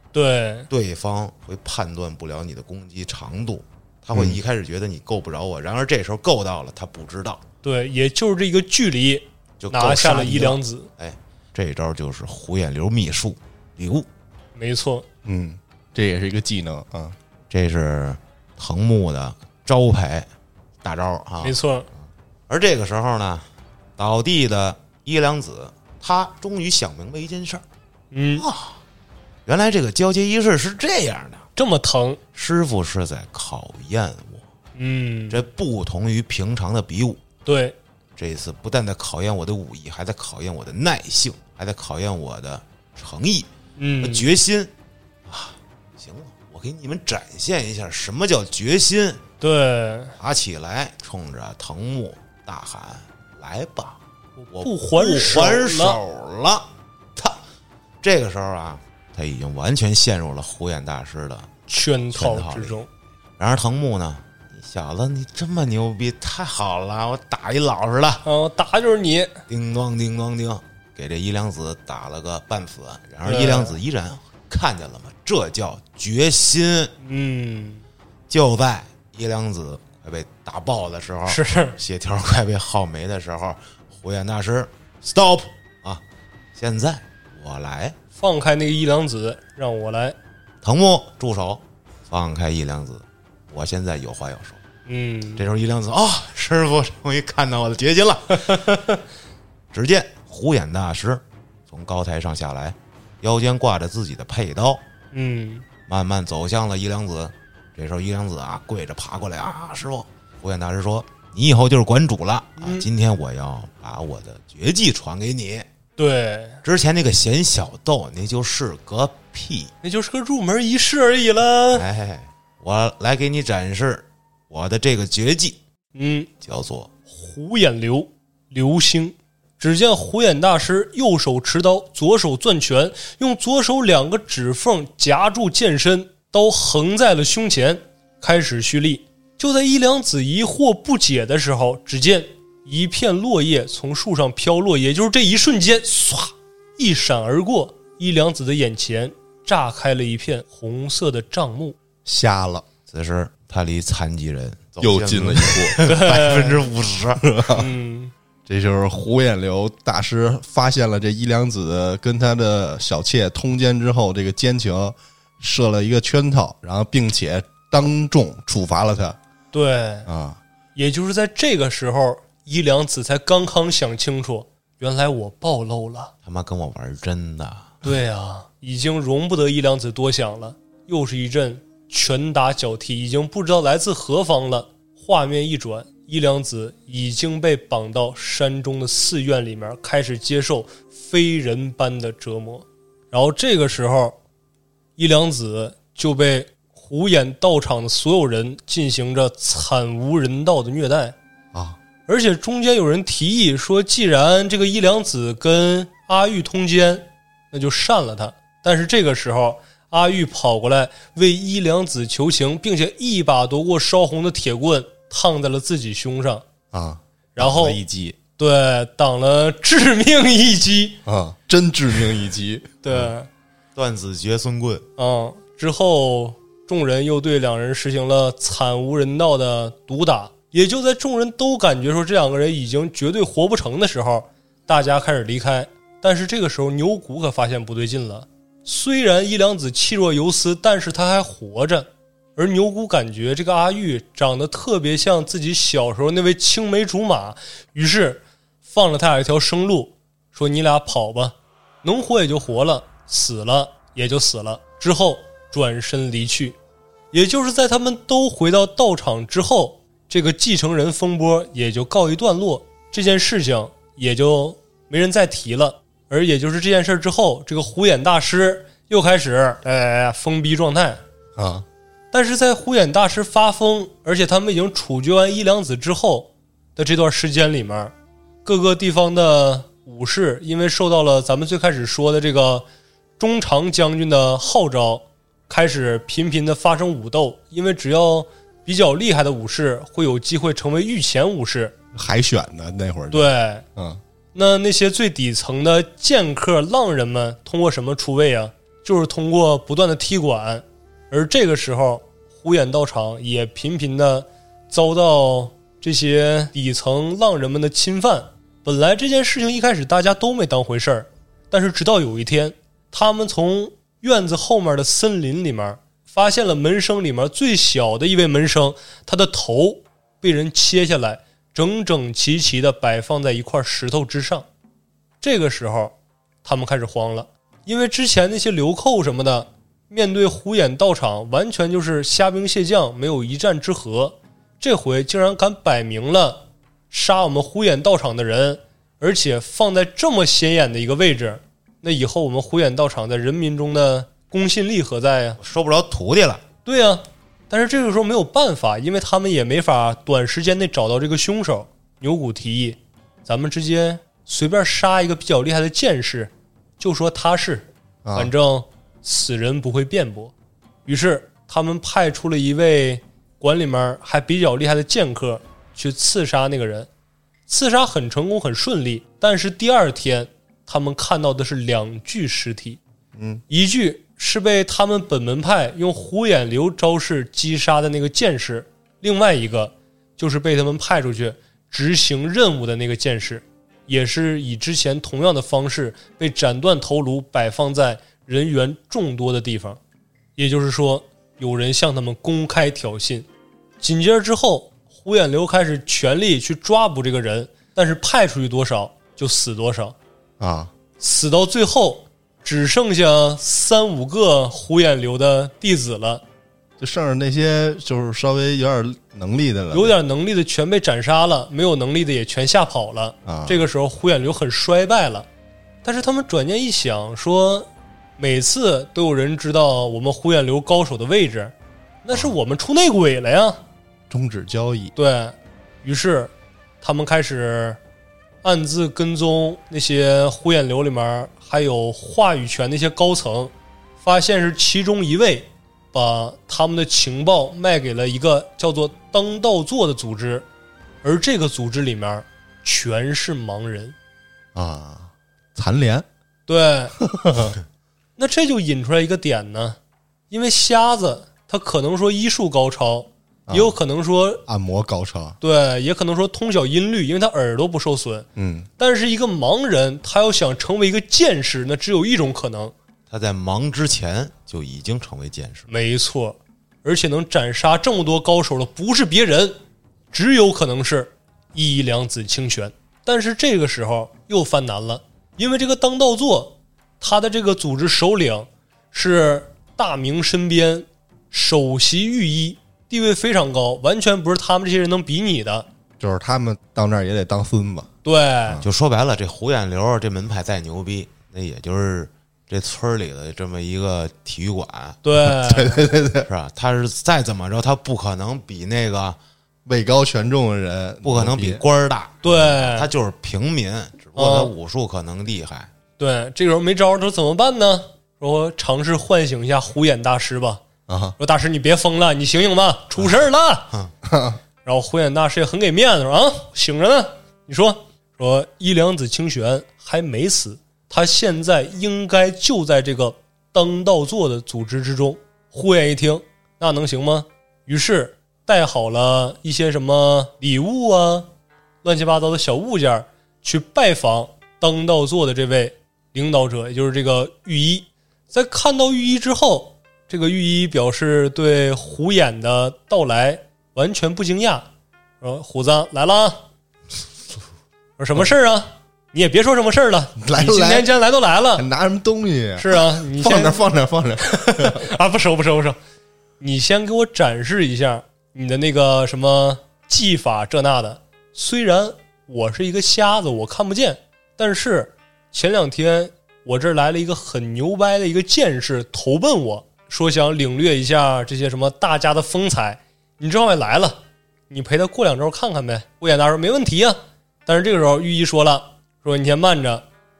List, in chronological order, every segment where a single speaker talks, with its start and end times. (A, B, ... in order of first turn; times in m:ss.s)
0:00.1-0:00.7 A
0:00.7-0:07.4 B
0:04.1-0:04.4 C
0:07.6-0:10.9 A
0:09.6-0:14.1 B
0:14.6-0:15.1 A
0:15.2-0:17.2 C
0:17.5-0:20.3 B
0:20.8-0:21.6 B
0:21.4-0:21.9 A
0:22.5-0:27.6 B
0:28.1-0:28.5 A
0:28.4-0:28.8 B
0:29.5-0:31.5 B
0:31.6-0:32.2 A
0:32.3-0:34.4 B
0:34.8-0:35.4 A
0:35.3-0:37.2 B
0:37.5-0:37.8 A
0:38.2-0:43.5 B
0:43.8-0:44.3 A
0:44.0-0:44.7 B
0:45.3-0:49.2 B
0:49.4-0:50.2 A
0:50.2-0:54.0 B
0:54.4-0:56.0 A
0:54.5-0:57.4 B
0:58.0-1:01.5 B
1:01.7-1:02.9 A
1:02.1-1:02.8 B
1:03.4-1:08.3 B
1:08.2-1:09.4 A
1:09.5-1:16.9 B
1:13.2-1:13.8 A
1:17.0-1:17.8 A
1:18.3-1:26.0 B
1:21.3-1:21.8 A
1:26.6-1:28.0 B
1:28.2-1:30.2 A
1:30.6-1:34.6 B
1:34.9-1:35.4 A
1:35.4-1:39.0 B
1:38.4-1:38.8 A
1:39.7-1:44.8 B
1:45.1-1:45.6 A
1:45.9-1:55.7 B
1:52.6-1:52.9 A
1:56.0-1:56.6 A
1:56.6-1:59.7 B
1:59.8-2:01.8 A
2:01.7-2:05.6 B
2:06.0-2:06.3 A
2:06.4-2:06.9 B
2:07.1-2:31.8 A
2:32.0-2:32.7 C
2:32.9-2:37.3 B
2:34.8-2:36.0 C
2:35.8-2:36.6 A
2:37.2-2:37.7 C
2:37.5-2:38.1 A
2:38.5-2:49.2 C
2:49.5-2:50.1 A
2:50.1-2:50.4 C
2:50.8-2:56.1 A
2:56.2-2:57.8 B
2:57.8-3:14.2 A
3:15.0-3:21.2 A
3:22.1-3:36.4 A
3:36.7-3:38.2 C
3:37.4-3:37.8 A
3:38.4-3:41.0 A
3:41.1-3:43.1 C
3:42.8-3:43.3 A
3:43.8-3:44.9 B
3:45.0-4:16.6 A
4:17.1-4:31.0 A
4:31.4-4:31.6 C
4:32.1-4:37.9 A
4:38.4-4:42.7 A
4:43.2-4:51.7 A
4:51.9-4:54.0 C
4:53.1-4:53.6 A
4:54.3-5:24.5 A
5:25.2-5:45.4 A
5:45.4-5:46.4 B
5:46.6-6:00.3 A
5:58.0-5:58.3 C
6:00.9-6:06.9 A
6:07.5-6:12.8 A
6:13.2-6:13.4 C
6:13.5-6:29.8 A
6:30.4-6:33.3 A
6:33.8-6:40.0 A
6:40.4-6:40.7 C
6:41.0-6:46.2 A
6:46.8-6:50.0 C
6:49.7-6:55.3 A
6:53.3-6:53.6 C
6:55.8-7:03.6 A
7:04.1-7:04.9 C
7:05.0-7:07.8 A
7:08.4-7:20.5 A
7:21.0-7:24.0 A
7:24.6-7:26.1 C
7:26.5-7:27.0 A
7:27.0-7:27.6 C
7:28.2-7:29.8 A
7:30.3-7:34.4 A
7:33.5-7:33.8 C
7:34.5-7:35.4 C
7:35.4-7:38.3 A
7:38.4-7:38.7 C
7:38.8-7:42.7 A
7:43.1-7:45.7 B
7:45.7-7:49.6 A
7:50.1-8:05.7 A
8:06.0-8:07.9 C
8:08.0-8:08.6 A
8:08.6-8:15.0 B
8:15.0-8:15.9 A
8:15.2-8:16.3 C
8:16.3-8:19.2 B
8:19.7-8:21.6 C
8:21.0-8:25.7 B
8:22.2-8:22.9 A
8:24.2-8:24.5 A
8:26.0-8:30.6 A
8:30.9-8:31.2 C
8:31.2-8:33.7 A
8:34.0-8:34.4 C
8:34.6-8:51.3 A
8:51.8-9:04.7 A
9:05.2-9:06.4 A
9:08.0-9:11.7 A
9:10.2-9:10.9 C
9:11.6-9:14.9 C
9:12.6-9:13.6 A
9:14.2-9:15.8 A
9:16.4-9:34.0 A
9:34.5-9:39.8 A